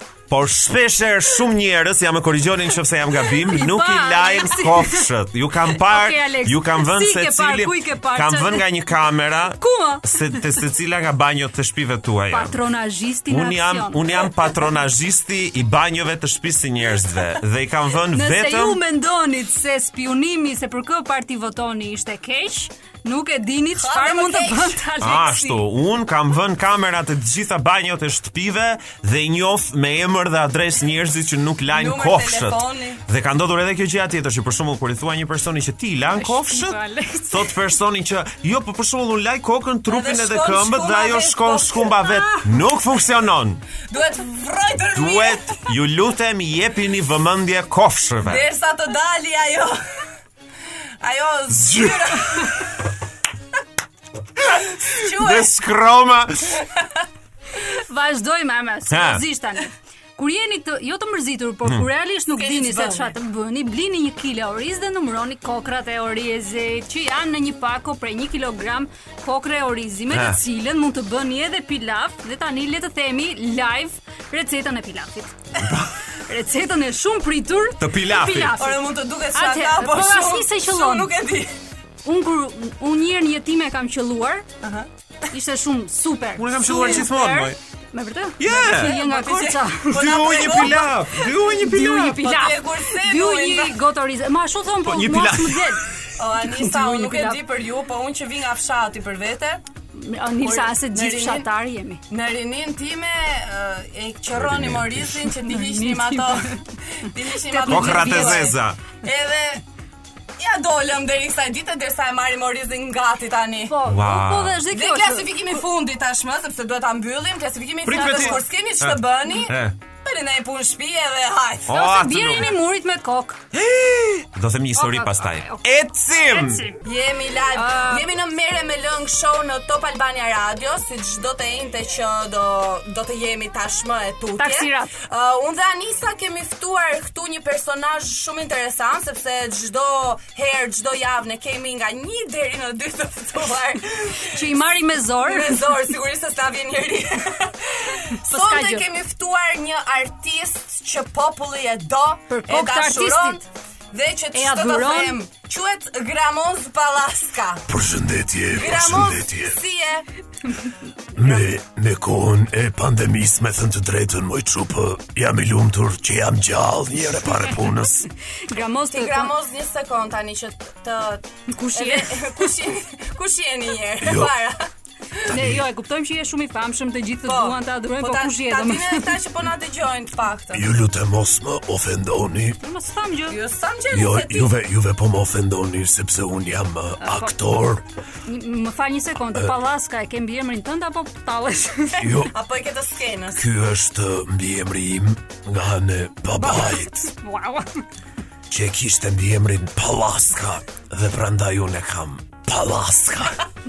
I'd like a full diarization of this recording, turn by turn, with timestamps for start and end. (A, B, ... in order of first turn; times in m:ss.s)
0:00.3-0:12.6 A
0:03.4-0:05.1 B
0:05.7-0:08.8 B
0:09.6-0:10.4 B
0:12.3-0:14.3 B
0:13.3-0:18.8 A
0:18.1-0:25.7 B
0:23.7-0:24.8 C
0:25.0-0:43.6 A
0:31.7-0:33.0 C
0:36.1-0:37.6 B
0:39.9-0:42.0 C
0:43.9-0:45.7 C
0:44.9-0:48.4 A
0:48.2-0:50.0 C
0:51.0-0:52.7 C
0:51.7-0:52.0 A
0:54.5-0:55.6 C
0:55.0-0:56.6 A
0:57.6-1:15.3 B
0:58.9-0:59.2 A
1:02.3-1:03.1 C
1:10.1-1:10.4 A
1:15.6-1:15.9 A
1:16.2-1:21.1 B
1:17.8-1:18.6 A
1:18.6-1:21.5 C
1:22.0-1:24.5 B
1:24.6-1:24.9 C
1:25.3-1:35.9 B
1:26.4-1:27.6 A
1:26.7-1:27.0 C
1:28.4-1:29.0 A
1:28.4-1:30.9 C
1:29.9-1:32.2 A
1:32.0-1:33.8 C
1:34.8-1:35.8 A
1:36.2-1:39.6 C
1:36.4-1:37.4 B
1:39.9-1:42.0 B
1:40.4-1:41.5 C
1:42.1-1:49.6 C
1:44.6-1:44.8 A
1:45.4-1:46.6 B
1:47.4-1:48.5 B
1:47.6-1:48.8 A
1:50.4-1:53.8 C
1:53.7-1:55.5 B
1:53.8-1:54.6 A
1:54.7-2:01.8 C
1:57.8-1:59.8 A
1:57.9-1:58.4 B
2:01.7-2:02.6 A
2:01.7-2:03.4 B
2:03.5-2:06.6 A
2:04.8-2:05.6 B
2:06.2-2:06.8 B
2:06.8-2:24.5 C
2:07.5-2:08.1 B
2:14.4-2:14.9 B
2:24.2-2:25.7 B
2:25.2-2:37.6 C
2:28.3-2:28.9 B
2:32.3-2:33.4 B
2:34.3-2:35.2 B
2:37.7-2:39.6 D
2:38.5-2:40.1 C
2:41.2-2:48.0 D
2:48.0-2:49.3 B
2:48.9-2:54.7 C
2:51.5-2:52.5 B
2:54.0-2:54.3 D
2:55.3-2:59.2 B
2:55.3-2:55.6 D
2:57.2-3:00.7 C
3:00.5-3:02.6 D
3:02.6-3:03.4 B
3:03.3-3:04.5 C
3:03.9-3:07.8 D
3:07.0-3:07.3 B
3:08.2-3:12.1 B
3:12.0-3:12.3 D
3:12.3-3:13.5 C
3:13.4-3:17.1 D
3:16.4-3:17.8 B
3:18.5-3:23.4 D